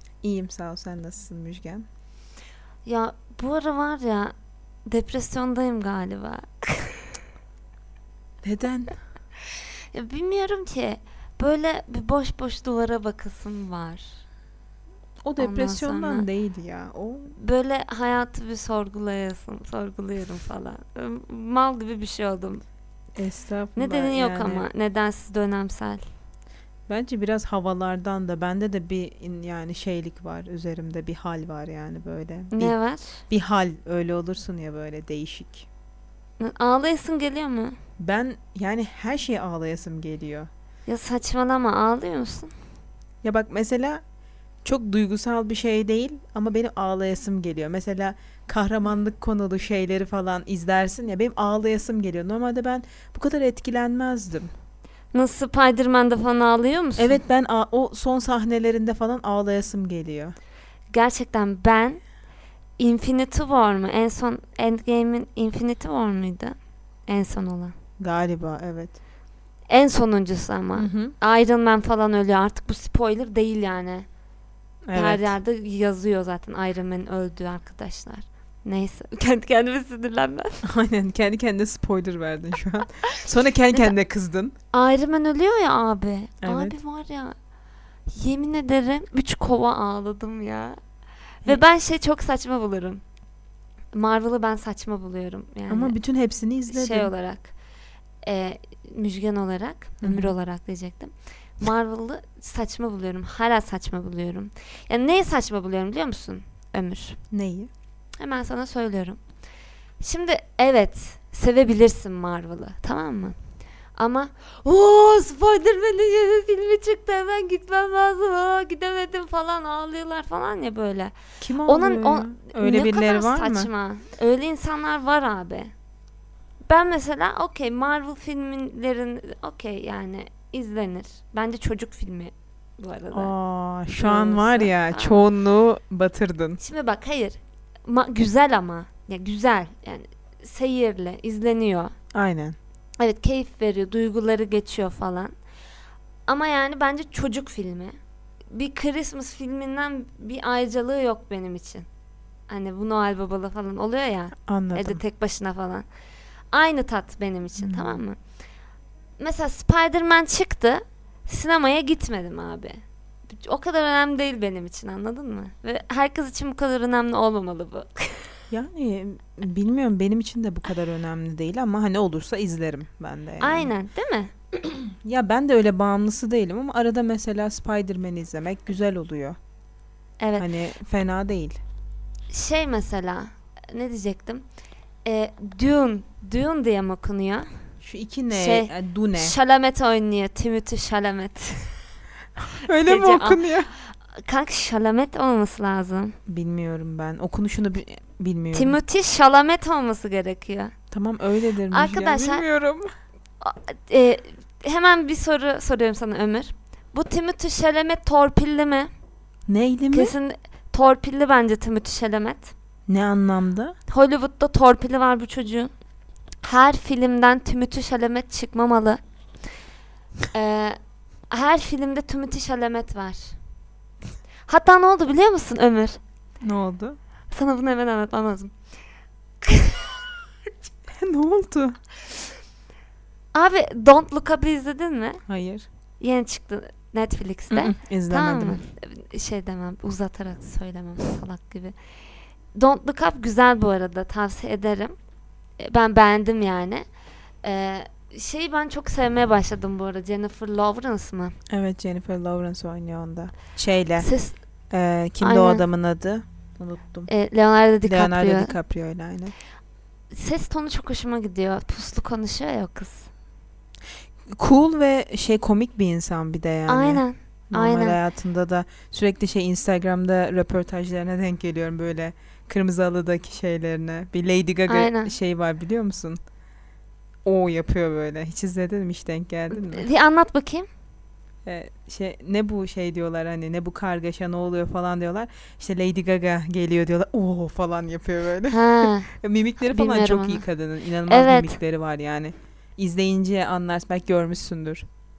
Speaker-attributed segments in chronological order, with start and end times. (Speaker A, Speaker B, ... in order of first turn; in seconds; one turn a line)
Speaker A: 0.2-1.8
Speaker B: 2.8-4.3
Speaker B: 4.8-7.1
Speaker A: 8.4-8.9
Speaker B: 9.9-14.1
Speaker A: 15.2-17.4
Speaker B: 15.4-16.2
Speaker B: 17.4-22.6
Speaker A: 23.1-24.7
Speaker B: 23.8-26.0
Speaker A: 26.9-32.7
Speaker B: 32.5-33.2
Speaker A: 33.3-35.7
Speaker B: 36.4-37.8
Speaker A: 38.0-40.5
Speaker B: 40.9-42.5
Speaker A: 43.2-44.0
Speaker A: 44.6-54.5
Speaker B: 55.1-57.2
Speaker A: 57.0-60.4
Speaker B: 60.9-62.0
Speaker B: 62.8-66.5
Speaker B: 67.1-67.7
Speaker A: 68.0-69.0
Speaker B: 69.7-74.0
Speaker A: 70.7-71.2
Speaker A: 74.8-75.4
Speaker B: 74.9-80.6
Speaker A: 80.6-84.5
Speaker B: 84.7-87.3
Speaker A: 86.4-86.8
Speaker B: 88.1-90.8
Speaker B: 91.4-93.0
Speaker B: 93.9-96.0
Speaker A: 95.7-97.1
Speaker B: 96.7-97.5
Speaker B: 98.2-107.2
Speaker A: 100.0-100.3
Speaker A: 107.3-107.7
Speaker B: 108.2-109.2
Speaker B: 110.0-113.3
Speaker B: 114.0-125.7
Speaker A: 121.4-123.7
Speaker B: 126.7-133.3
Speaker A: 133.1-136.6
Speaker B: 133.9-135.2
Speaker B: 136.6-141.9
Speaker A: 142.1-142.6
Speaker B: 143.0-145.3
Speaker B: 146.3-147.9
Speaker B: 148.5-151.8
Speaker B: 152.5-155.8
Speaker A: 154.4-155.0
Speaker B: 156.5-158.2
Speaker A: 157.6-158.0
Speaker B: 159.2-168.3
Speaker A: 168.5-173.7
Speaker B: 173.4-174.3
Speaker A: 174.6-179.4
Speaker B: 180.2-180.4
Speaker A: 180.4-181.6
Speaker B: 182.3-184.4
Speaker B: 185.0-187.5
Speaker A: 187.8-189.3
Speaker B: 188.3-191.8
Speaker A: 192.4-193.7
Speaker B: 192.7-193.4
Speaker B: 194.2-196.2
Speaker A: 196.3-198.8
Speaker B: 198.5-200.7
Speaker A: 200.9-202.9
Speaker B: 201.7-202.4
Speaker B: 203.4-208.9
Speaker A: 209.5-210.1
Speaker B: 209.9-212.5
Speaker A: 212.9-213.8
Speaker B: 213.9-215.7
Speaker B: 216.4-219.0
Speaker B: 220.3-220.8
Speaker B: 221.3-223.3
Speaker B: 224.5-226.0
Speaker A: 226.4-227.0
Speaker B: 227.3-228.5
Speaker B: 229.4-230.1
Speaker A: 230.9-231.8
Speaker B: 233.3-235.2
Speaker A: 235.3-235.7
Speaker B: 236.0-241.7
Speaker A: 237.5-238.6
Speaker B: 242.5-244.9
Speaker B: 245.6-246.8
Speaker B: 247.4-251.3
Speaker A: 251.5-254.1
Speaker B: 254.0-254.4
Speaker A: 254.7-257.1
Speaker B: 255.2-255.6
Speaker B: 257.1-258.5
Speaker A: 257.8-259.3
Speaker B: 260.1-263.1
Speaker A: 264.3-276.2
Speaker B: 266.7-268.0
Speaker B: 274.7-275.1
Speaker A: 277.2-279.9
Speaker B: 279.5-280.7
Speaker A: 281.4-294.9
Speaker B: 288.5-289.1
Speaker B: 289.6-290.4
Speaker B: 291.1-291.6